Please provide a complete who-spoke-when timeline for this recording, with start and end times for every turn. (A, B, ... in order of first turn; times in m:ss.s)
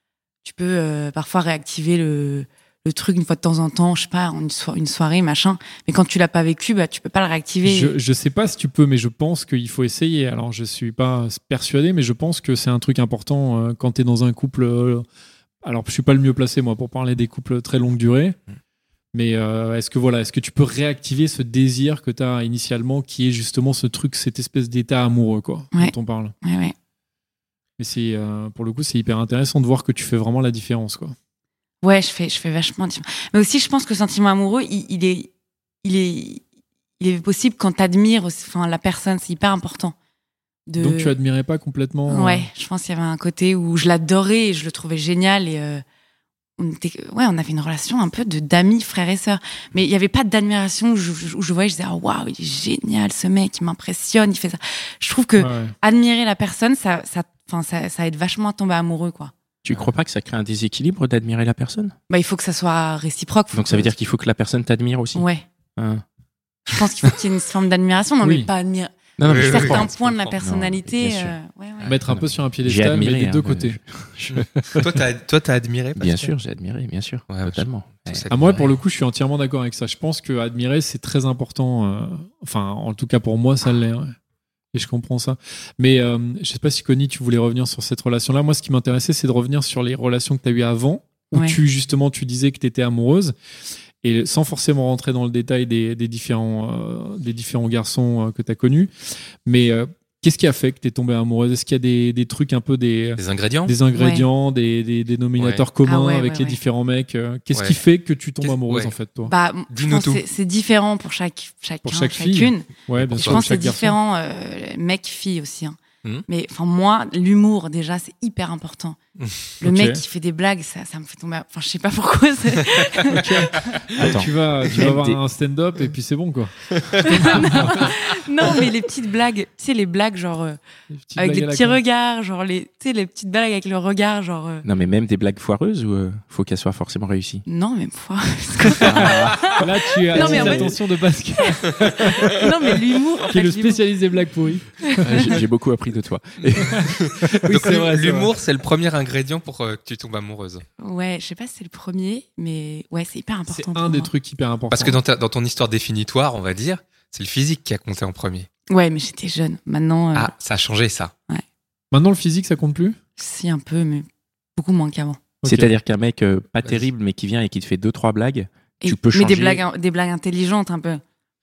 0:00.4-0:08.0 A
0:07.6-0:15.1 B
0:15.6-0:18.4 B
0:19.1-0:26.4 B
0:25.7-0:26.7 A
0:27.8-0:31.2 B
0:31.8-0:35.3 A
0:35.8-0:36.4 A
0:37.0-0:40.0 A
0:40.7-0:41.2 A
0:40.8-0:42.5 B
0:42.1-0:45.8 A
0:46.6-0:59.3 A
0:55.4-0:55.8 B
0:59.6-1:02.0 C
1:02.1-1:03.9 A
1:03.5-1:06.0 C
1:05.2-1:05.4 A
1:06.7-1:12.0 A
1:08.2-1:08.5 B
1:09.2-1:11.4 C
1:09.3-1:09.9 D
1:11.8-1:13.8 B
1:12.1-1:14.8 C
1:14.3-1:16.3 D
1:16.0-1:18.2 C
1:17.3-1:18.8 D
1:18.3-1:24.2 B
1:24.7-1:33.4 B
1:34.0-1:38.9 B
1:39.5-1:49.3 B
1:43.2-1:43.8 D
1:44.0-1:44.3 A
1:45.4-1:45.6 D
1:45.9-1:46.6 A
1:47.5-1:47.8 D
1:48.4-1:48.9 D
1:49.2-1:55.8 A
1:49.7-1:50.2 D
1:51.8-1:54.0 B
1:53.0-1:53.5 D
1:56.3-1:59.0 A
1:59.2-1:59.5 D
1:59.6-2:03.7 A
1:59.6-2:00.0 B
2:03.1-2:07.9 B
2:04.0-2:05.2 C
2:06.8-2:07.8 D
2:07.0-2:10.6 A
2:10.9-2:11.8 B
2:11.2-2:14.6 A
2:14.6-2:17.4 C
2:17.5-2:20.8 A
2:18.8-2:22.5 B
2:18.8-2:19.6 C
2:20.1-2:20.8 C
2:21.4-2:23.9 A
2:23.3-2:25.4 B
2:24.9-2:25.3 A
2:25.0-2:27.0 C
2:27.0-2:30.6 D
2:27.4-2:28.3 B
2:30.8-2:34.1 A
2:33.5-2:35.0 B
2:34.7-2:38.5 D
2:38.7-2:40.3 A
2:40.2-2:41.1 D
2:41.9-2:43.0 B
2:43.2-2:45.2 A
2:45.4-2:45.7 B
2:45.4-2:49.6 C
2:48.8-2:51.0 A